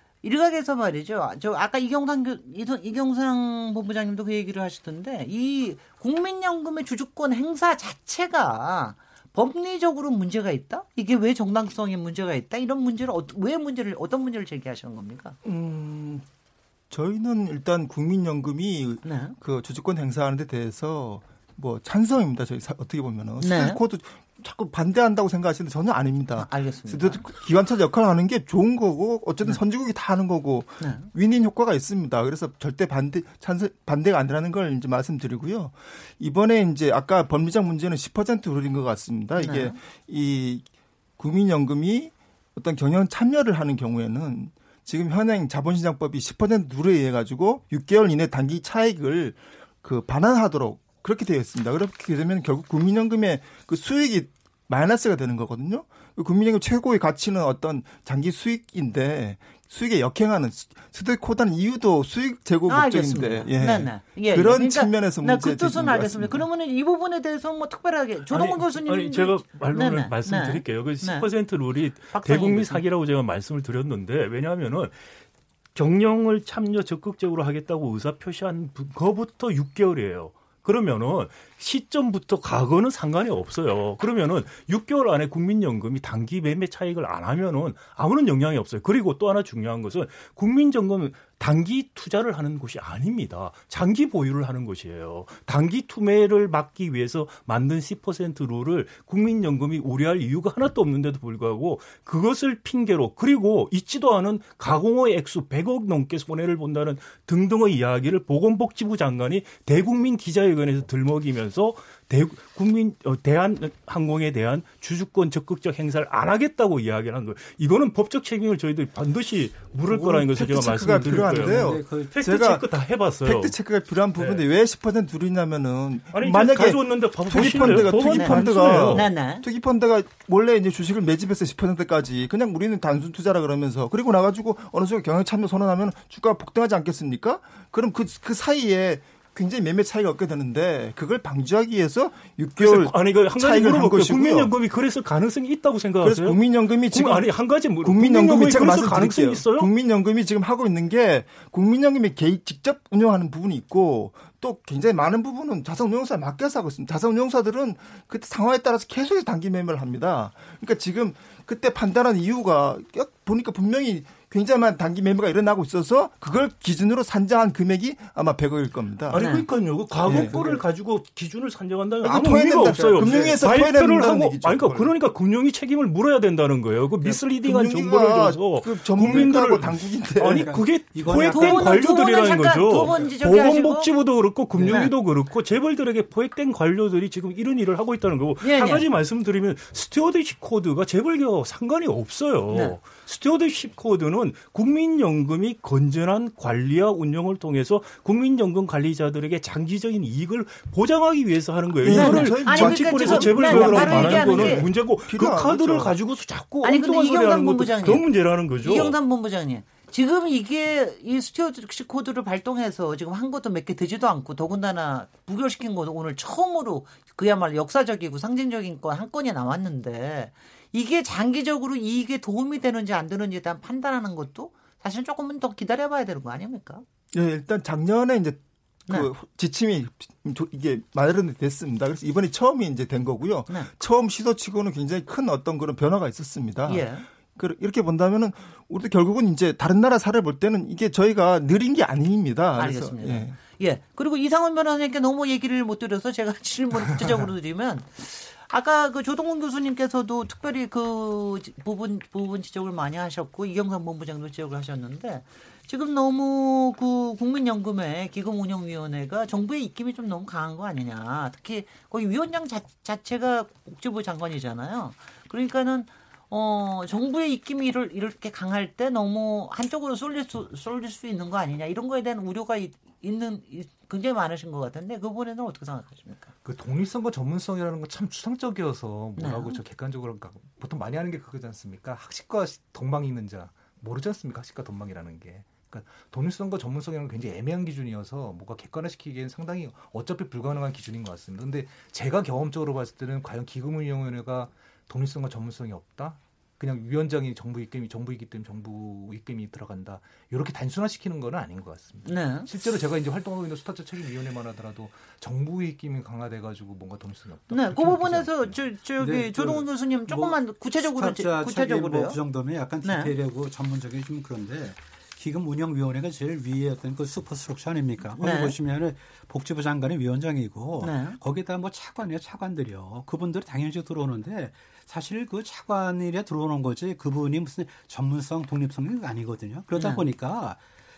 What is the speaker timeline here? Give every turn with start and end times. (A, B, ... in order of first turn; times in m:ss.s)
0:00.2-0:15.4 A
0:15.4-0:16.2 B
0:16.9-0:40.7 B
0:19.0-0:19.4 A
0:23.4-0:23.8 A
0:26.4-0:27.2 A
0:30.8-0:31.1 A
0:39.4-0:39.8 A
0:41.2-1:06.4 B
1:02.7-1:11.3 A
1:08.3-1:15.2 C
1:12.1-1:12.8 A
1:15.8-2:03.6 C
1:59.9-2:02.6 B
2:01.0-2:02.1 D
2:03.2-2:24.5 B
2:04.2-2:04.4 C
2:06.1-2:09.1 C
2:08.0-2:09.4 A
2:22.6-2:29.7 C
2:26.0-2:49.2 B
2:49.1-3:29.0 C
2:49.2-2:49.5 A
2:50.1-2:50.4 B
2:50.1-2:50.6 D
2:52.0-2:54.9 B
2:53.0-2:53.4 D
2:57.0-3:00.7 B
2:59.0-2:59.4 D
3:00.3-3:02.0 D
3:01.3-3:03.9 A
3:02.7-3:03.1 D
3:04.6-3:04.9 D
3:04.6-3:04.9 A
3:08.4-3:08.8 A
3:12.5-3:12.8 A
3:21.8-3:26.0 B
3:21.9-3:24.7 A
3:26.6-3:28.1 A
3:28.6-3:46.8 A
3:47.1-4:03.4 B
3:56.7-3:57.1 A
4:02.6-4:36.3 A
4:36.4-5:08.6 E
4:39.2-4:39.6 A
5:02.0-5:02.5 A
5:07.5-5:12.2 A
5:09.0-5:30.6 D
5:12.8-5:13.1 A
5:18.2-5:18.6 A
5:20.8-5:21.2 A
5:29.8-5:30.1 A